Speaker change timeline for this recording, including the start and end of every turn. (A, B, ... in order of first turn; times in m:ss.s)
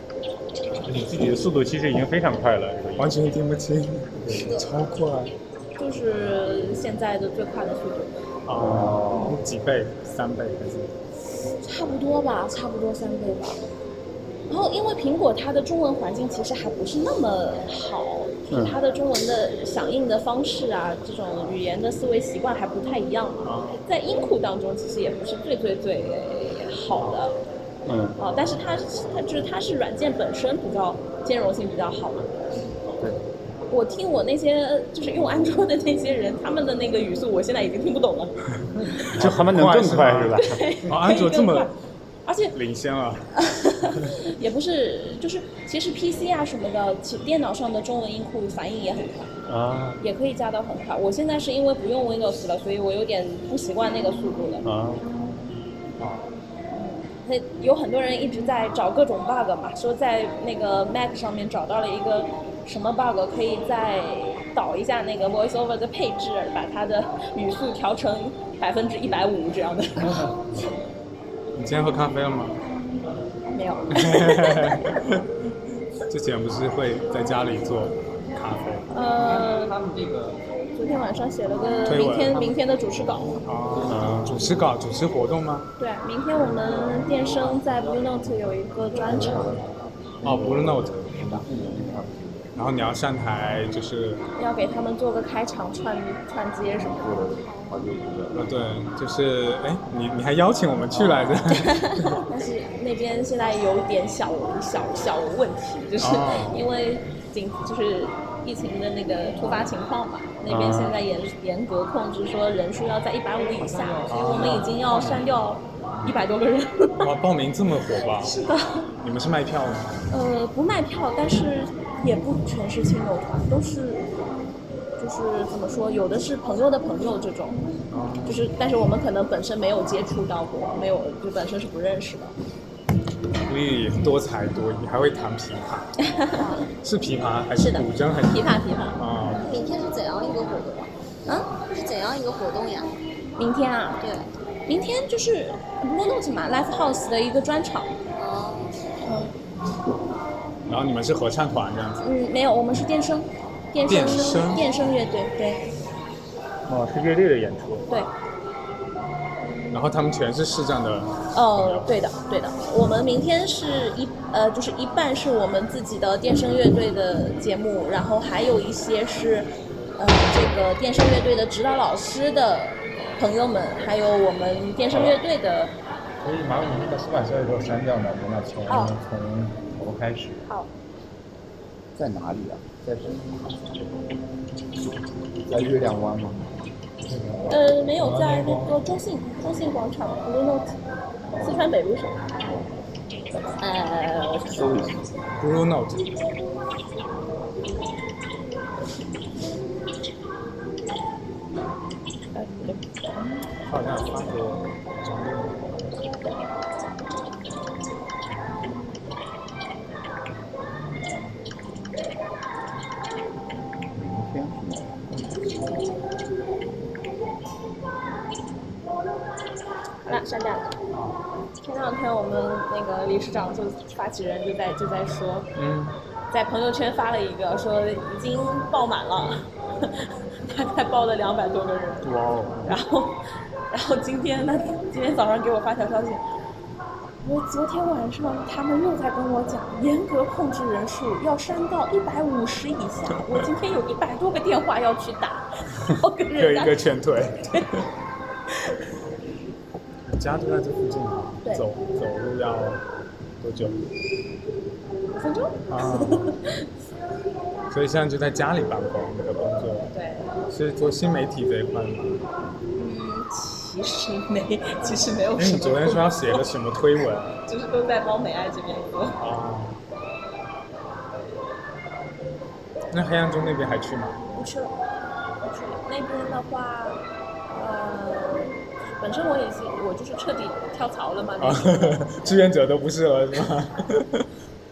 0:00.8-0:03.1 A
0:03.0-0:05.3 B
0:04.2-0:04.6 A
0:05.8-0:08.1 C
0:08.5-0:10.9 B
0:08.5-0:09.4 D
0:11.6-0:13.6 C
0:14.5-0:27.4 C
0:18.5-0:18.8 D
0:23.4-0:23.8 B
0:28.2-0:32.5 C
0:33.7-0:39.1 C
0:39.1-0:41.7 B
0:39.1-0:40.6 A
0:40.4-0:41.7 C
0:42.2-0:42.6 C
0:42.5-0:43.2 B
0:43.4-0:49.3 C
0:49.5-0:50.0 A
0:50.0-0:54.6 C
0:54.6-0:55.0 E
0:56.7-1:10.4 C
1:11.5-1:12.6 B
1:13.5-1:15.0 C
1:14.0-1:15.2 B
1:16.1-1:18.8 B
1:18.9-1:19.8 C
1:20.7-1:23.4 C
1:21.8-1:22.4 B
1:23.4-1:25.7 B
1:23.9-1:24.2 A
1:23.9-1:24.3 E
1:25.8-1:29.5 C
1:29.0-1:32.5 D
1:30.2-1:31.4 B
1:32.5-1:34.2 B
1:34.4-1:37.2 C
1:36.8-1:38.4 D
1:37.5-1:37.8 E
1:38.3-1:42.1 B
1:41.7-1:42.1 E
1:42.2-1:57.1 C
1:46.0-1:46.7 B
1:50.5-1:51.0 E
1:53.7-1:55.2 E
1:54.1-1:54.7 B
1:57.0-1:58.3 B
1:58.0-1:58.8 C
1:59.0-2:00.0 B
2:00.1-2:04.1 C
2:05.0-2:07.6 C
2:07.9-2:08.4 B
2:08.2-2:12.3 C
2:13.5-2:15.9 B
2:16.1-2:16.7 C
2:16.8-2:19.5 B
2:17.6-2:19.0 C
2:19.3-2:20.9 E
2:21.2-2:21.6 C
2:21.7-2:22.9 E
2:23.4-2:24.0 C
2:24.0-2:24.3 E
2:24.7-2:28.0 C
2:28.1-2:28.8 E
2:29.0-2:29.3 C
2:30.7-2:32.0 B
2:32.0-2:35.6 C
2:33.8-2:34.8 B
2:36.7-2:37.8 A
2:39.7-2:41.9 B
2:41.3-2:55.7 C
2:54.9-2:55.2 E
2:56.2-3:00.4 A
2:58.6-3:00.4 E
2:58.7-2:59.0 C
3:02.0-3:03.3 D
3:05.5-3:06.4 D
3:07.1-3:07.5 A
3:07.5-3:10.8 C
3:08.1-3:08.7 A
3:11.4-3:12.2 C
3:13.6-3:14.7 C
3:14.5-3:15.1 D
3:15.4-3:16.1 B
3:22.3-3:23.5 C
3:23.6-3:25.6 B
3:33.9-3:34.9 D
3:40.0-3:40.8 C
3:41.6-3:45.5 C
3:45.6-3:45.9 B
3:46.3-3:56.2 C
3:52.0-3:52.7 B
3:57.2-4:06.9 C
4:06.4-4:07.8 B
4:10.1-4:12.8 B
4:13.4-4:13.8 B
4:15.2-4:16.6 C
4:15.7-4:16.3 B
4:17.7-4:19.9 B
4:19.9-4:20.3 C
4:20.5-4:22.2 B
4:22.7-4:26.4 C
4:24.8-4:27.3 B
4:27.4-4:29.2 C
4:29.2-4:29.8 B
4:32.9-4:34.2 B
4:34.3-4:34.7 C
4:35.4-4:42.1 C
4:41.4-4:44.2 B